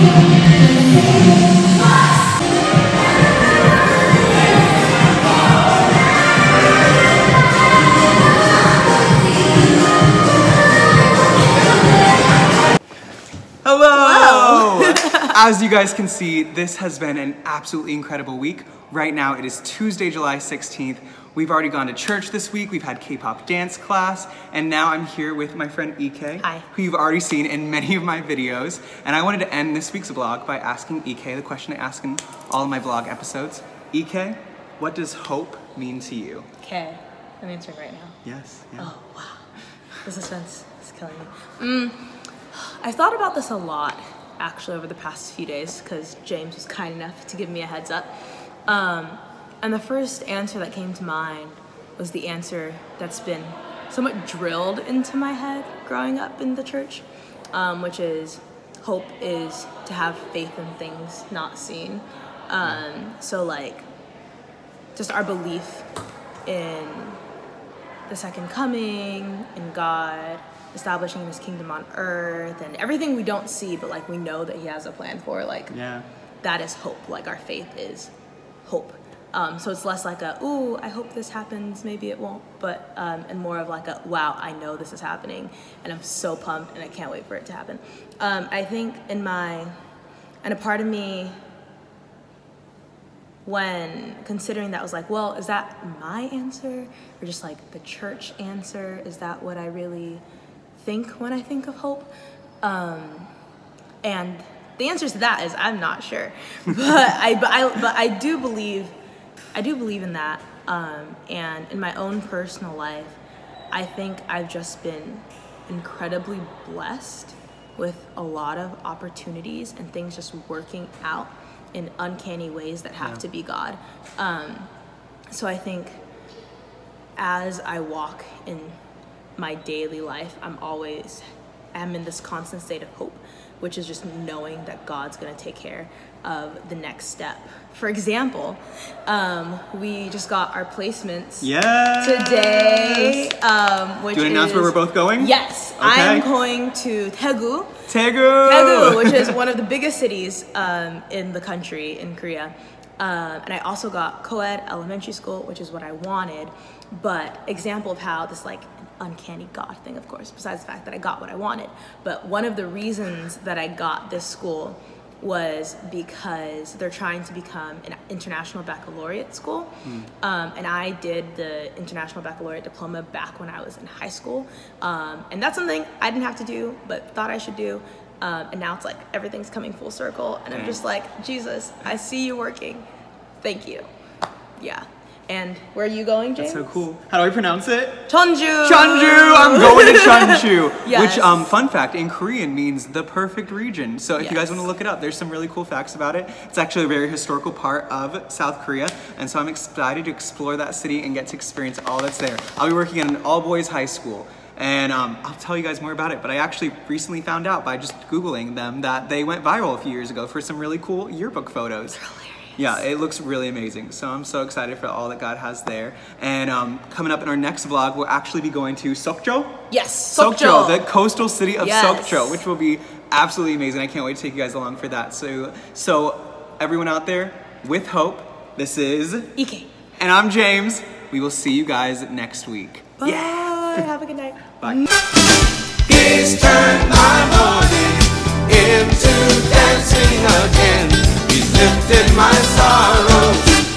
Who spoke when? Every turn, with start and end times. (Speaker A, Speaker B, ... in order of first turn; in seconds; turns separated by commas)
Speaker A: 13.6-36.5, Speaker B: 26.4-26.6, Speaker B: 36.6-38.2, Speaker A: 38.2-38.9, Speaker B: 38.8-39.5, Speaker B: 40.0-48.1, Speaker B: 48.7-63.9, Speaker B: 65.0-65.9, Speaker B: 66.5-67.2, Speaker B: 68.1-75.7, Speaker A: 75.7-76.0, Speaker B: 76.4-78.1, Speaker B: 78.6-89.7, Speaker B: 90.4-91.3, Speaker B: 93.4-100.2, Speaker B: 100.8-102.1, Speaker B: 102.6-103.3, Speaker B: 104.0-108.9, Speaker B: 109.5-113.2, Speaker B: 113.7-124.7, Speaker B: 125.3-126.0, Speaker B: 127.2-128.8, Speaker B: 129.4-147.8, Speaker A: 141.4-143.3, Speaker A: 144.1-146.3, Speaker A: 147.9-149.4, Speaker B: 148.4-182.9, Speaker A: 180.5-180.8, Speaker B: 183.4-183.9, Speaker B: 184.6-186.7, Speaker A: 186.4-188.1, Speaker B: 188.1-191.5, Speaker A: 188.6-212.0, Speaker B: 194.2-194.7, Speaker B: 212.0-212.8, Speaker A: 212.6-229.3, Speaker B: 219.7-220.8, Speaker B: 221.6-222.4, Speaker B: 229.3-229.7, Speaker A: 230.0-233.9, Speaker B: 233.0-234.9, Speaker A: 234.6-234.8, Speaker A: 235.9-237.9, Speaker C: 236.8-243.4, Speaker A: 238.5-239.6, Speaker A: 241.7-242.1